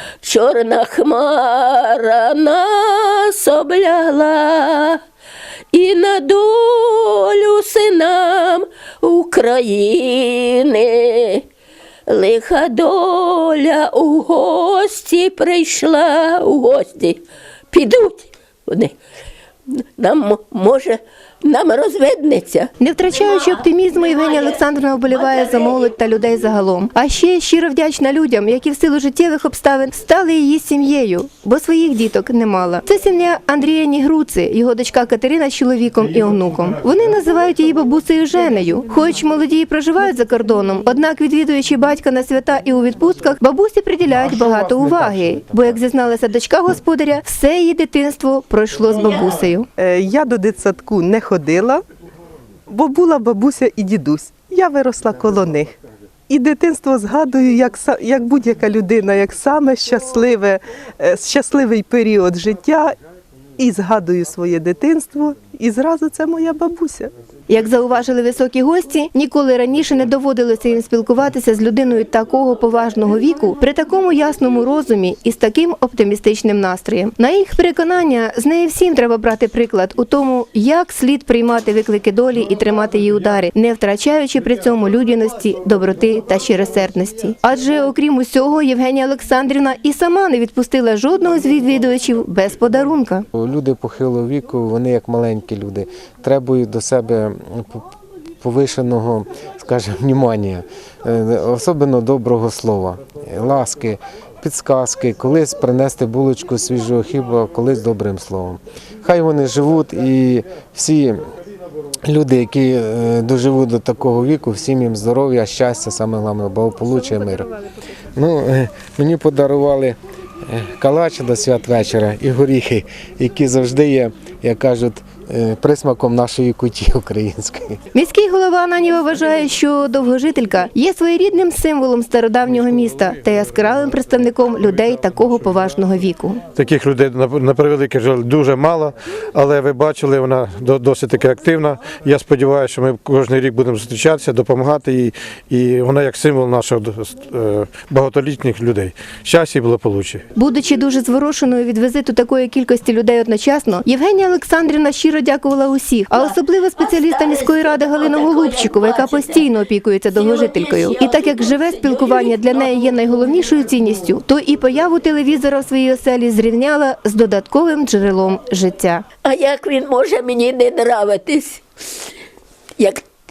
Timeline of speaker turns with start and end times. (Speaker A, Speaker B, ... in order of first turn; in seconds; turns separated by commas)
Speaker A: 0.2-5.0, Speaker A: 5.7-11.4, Speaker A: 12.1-17.2, Speaker A: 17.7-18.9, Speaker A: 20.0-22.7, Speaker B: 22.8-49.7, Speaker A: 25.2-25.7, Speaker C: 49.8-51.8, Speaker C: 52.7-55.7, Speaker C: 56.3-62.9, Speaker C: 63.6-67.1, Speaker B: 67.5-93.2, Speaker D: 93.3-97.9, Speaker D: 98.4-111.2, Speaker D: 112.1-117.5, Speaker D: 118.1-120.0, Speaker D: 120.5-127.8, Speaker B: 127.9-136.4, Speaker E: 136.5-150.2, Speaker B: 150.3-169.0, Speaker A: 156.8-159.4, Speaker A: 160.1-162.6, Speaker A: 169.2-171.6